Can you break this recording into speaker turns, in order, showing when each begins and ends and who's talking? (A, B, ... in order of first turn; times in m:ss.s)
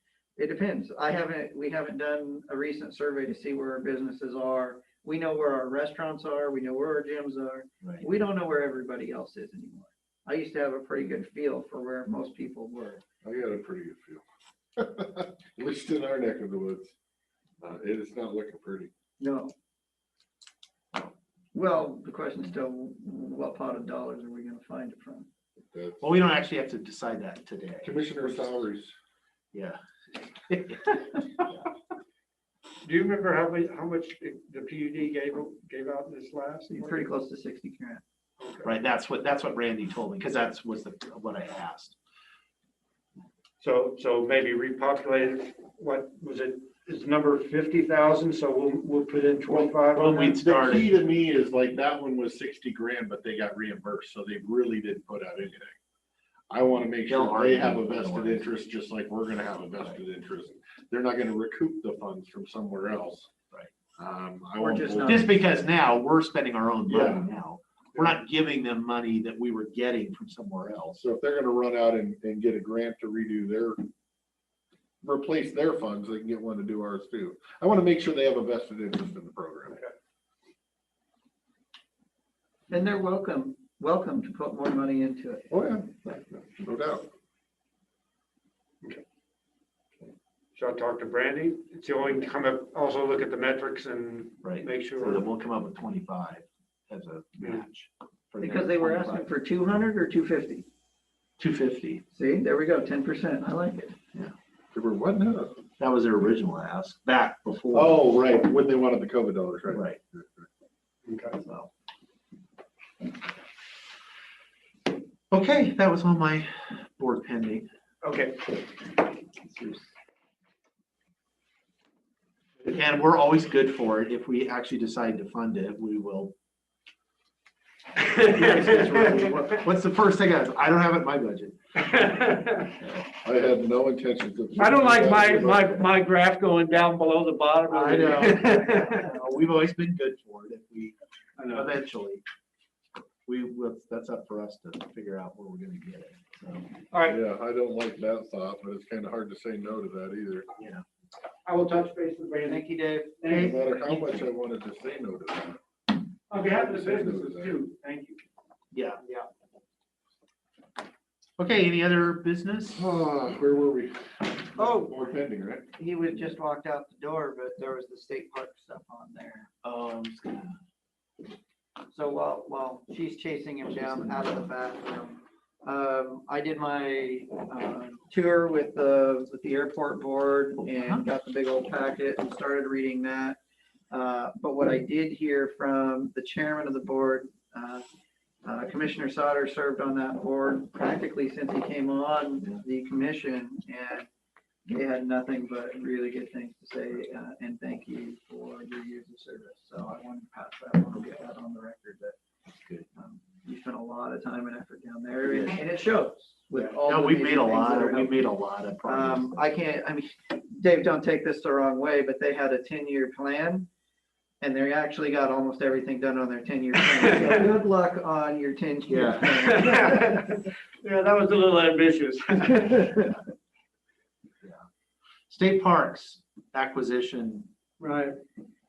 0:00.4-0:13.0 A
0:13.2-0:14.2 B
0:14.8-0:16.9 B
0:17.6-0:18.9 B
0:19.2-0:19.5 A
0:21.5-0:25.3 A
0:25.7-0:26.0 B
0:26.0-0:28.6 C
0:27.8-0:28.9 B
0:29.5-0:31.7 C
0:32.8-0:36.9 D
0:36.7-0:38.0 A
0:38.4-0:38.7 D
0:38.6-0:42.0 C
0:43.6-0:50.4 D
0:49.5-0:49.8 B
0:49.9-0:50.8 C
0:50.4-0:55.8 B
0:56.5-1:03.3 B
0:57.1-0:58.5 C
1:04.0-1:05.2 B
1:04.6-1:05.3 A
1:05.0-1:11.0 C
1:06.9-1:07.2 B
1:11.0-1:13.8 B
1:15.0-1:19.8 B
1:22.7-1:25.5 A
1:25.5-1:27.0 B
1:30.6-1:35.2 D
1:34.4-1:39.3 C
1:38.4-1:40.7 A
1:41.4-1:42.0 C
1:42.1-1:44.0 A
1:44.7-1:45.6 B
1:45.8-1:48.0 C
1:47.7-1:50.5 B
1:49.7-1:50.0 C
1:51.0-1:51.4 D
1:51.4-1:51.7 A
1:55.3-1:57.7 C
1:58.0-1:58.6 D
1:59.5-1:59.9 A
2:02.6-2:06.3 C
2:08.0-2:09.6 D
2:08.2-2:11.6 C
2:11.8-2:12.7 D
2:13.2-2:15.9 B
2:14.6-2:19.1 D
2:17.7-2:20.9 C
2:18.4-2:19.2 A
2:21.4-2:21.7 D
2:21.5-2:22.2 C
2:23.3-2:26.7 C
2:26.9-2:27.2 D
2:27.0-2:30.5 B
2:30.6-2:30.8 C
2:31.4-2:32.7 D
2:32.4-2:33.5 A
2:33.2-2:33.7 D
2:33.3-2:35.6 B
2:36.3-2:38.2 D
2:36.4-2:37.6 B
2:38.7-2:39.0 C
2:41.4-2:42.9 C
2:42.8-2:45.7 B
2:44.6-2:44.9 A
2:45.8-2:49.5 A
2:49.6-2:50.6 C
2:51.9-3:03.4 A
2:53.8-2:54.2 C
3:00.6-3:01.1 C
3:03.9-3:07.8 A
3:08.4-3:14.1 A
3:14.7-3:22.2 A
3:22.9-3:28.2 A
3:25.2-3:25.6 C
3:26.8-3:29.3 C
3:28.8-3:33.7 A
3:34.4-3:40.0 A
3:38.9-3:39.4 C
3:39.4-3:43.1 D
3:45.3-3:47.5 C
3:47.8-3:48.2 D